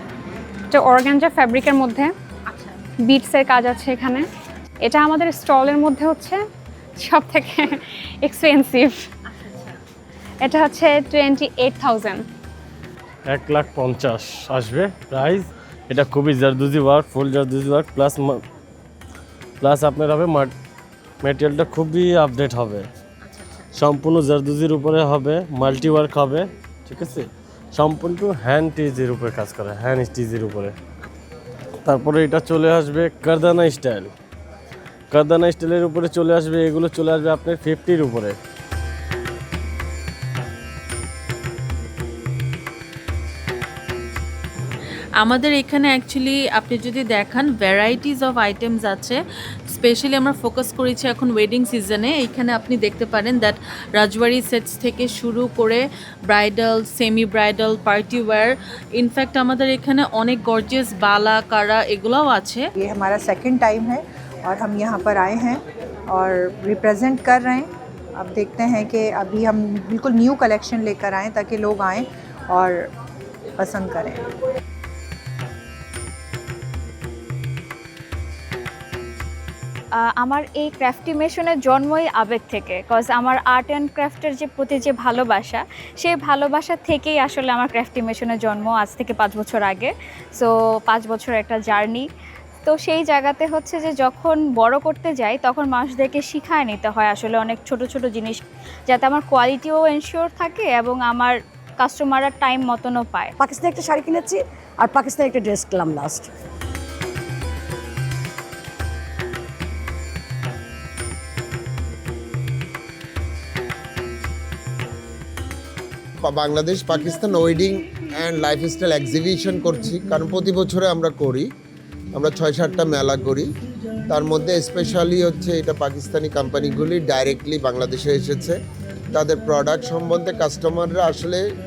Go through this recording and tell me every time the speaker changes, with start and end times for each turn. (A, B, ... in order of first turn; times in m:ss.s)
0:00.7-0:02.1 A
0:03.0-0:04.3 A
0:04.8-0:06.4 A
0:07.0-0:09.1 A
0:10.4-0:12.2 A
0:13.3-0:18.4 B
0:19.6-0:20.5 B
0:21.2-0:22.8 B
0:23.7-0:30.8 B
0:31.8-0:34.1 B
0:35.1-0:38.4 B
0:45.2-0:49.2 C
0:49.7-1:02.7 C
1:02.8-1:12.9 D
1:13.6-1:14.2 D
1:20.0-1:32.1 E
1:32.7-1:43.3 E
1:43.4-1:46.3 F
1:56.2-2:01.5 G
2:02.1-2:03.5 G
2:04.1-2:08.6 G
2:09.1-2:11.4 G